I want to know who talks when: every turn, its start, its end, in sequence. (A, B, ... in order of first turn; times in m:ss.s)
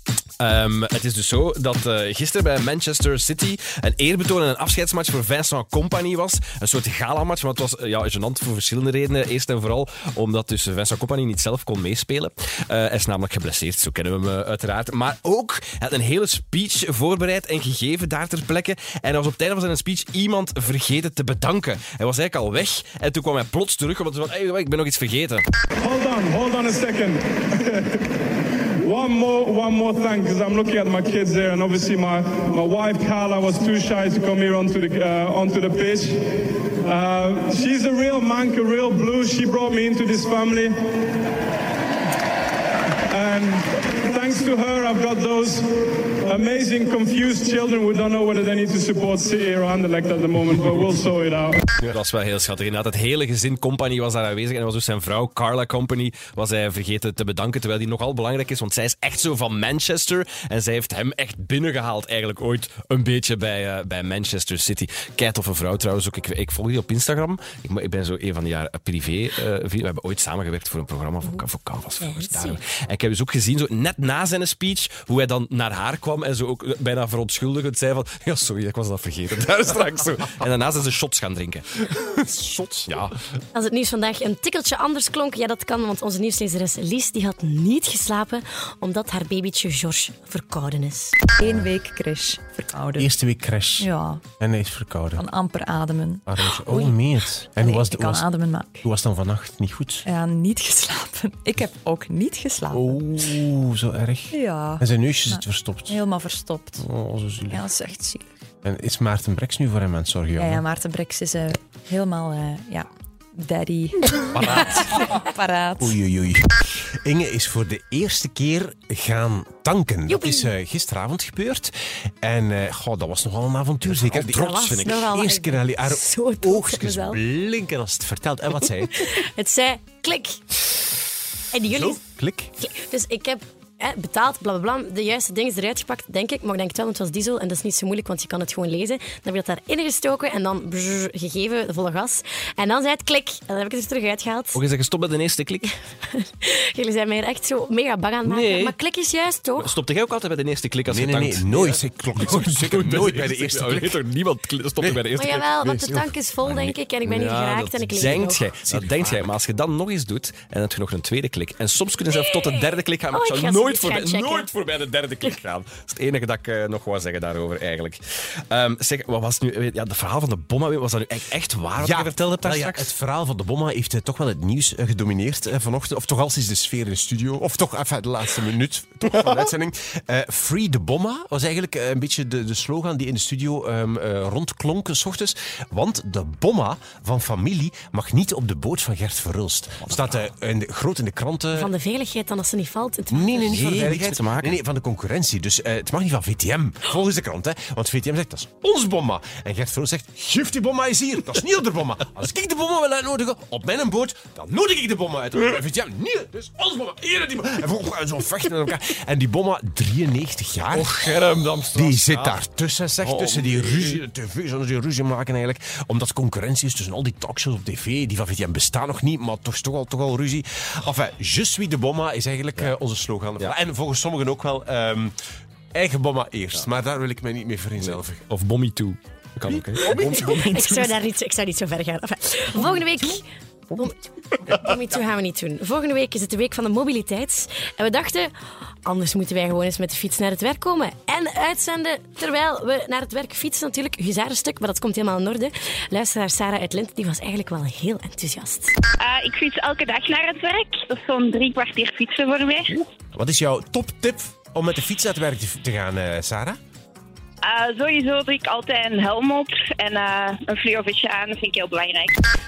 0:00.4-0:25.4 A
0:25.8-0:28.0 B
0:28.8-0:36.2 B
0:36.8-0:40.8 B
0:43.1-0:51.6 B
0:51.8-1:21.8 A
1:12.0-1:12.5 C
1:21.9-1:22.9 D
1:22.9-1:23.2 A
1:23.5-1:31.1 C
1:31.4-1:31.7 D
1:31.4-1:33.1 E
1:33.0-1:35.2 D
1:33.8-1:34.2 E
1:35.2-1:36.9 E
1:36.3-1:38.3 D
1:37.6-1:38.7 E
1:38.8-1:40.0 D
1:40.0-1:43.0 E
1:42.7-1:46.0 D
1:44.3-1:46.9 E
1:46.8-1:47.6 D
1:47.5-1:48.2 E
1:48.6-1:50.6 D
1:50.4-1:56.0 E
1:54.4-1:55.0 D
1:55.8-2:09.0 D
2:00.1-2:00.5 C
2:03.9-2:07.0 C
2:08.9-2:10.6 C
2:11.5-2:12.0 C
2:11.7-2:12.5 D
2:12.6-2:24.6 C
2:24.5-2:25.7 A
2:26.0-2:29.7 C
2:28.2-2:28.7 A
2:29.6-2:35.4 A
2:30.9-2:34.0 D
2:34.8-2:35.0 D
2:35.2-2:38.4 C
2:35.6-2:36.1 D
2:36.4-2:48.0 A
2:38.6-2:39.3 D
2:42.1-2:44.5 C
2:48.5-2:52.9 A
2:51.8-3:11.7 D
3:09.8-3:10.2 A
3:11.5-3:13.8 C
3:13.1-3:31.0 D
3:13.4-3:14.6 A
3:30.7-3:32.4 A
3:31.7-3:45.1 D
3:33.0-3:34.0 A
3:45.7-3:48.2 D
3:47.8-3:50.6 A
3:49.7-3:50.7 D
3:49.8-3:58.3 C
3:58.8-4:08.7 C
4:09.0-4:12.8 F
4:13.1-4:16.6 D
4:17.4-4:22.2 F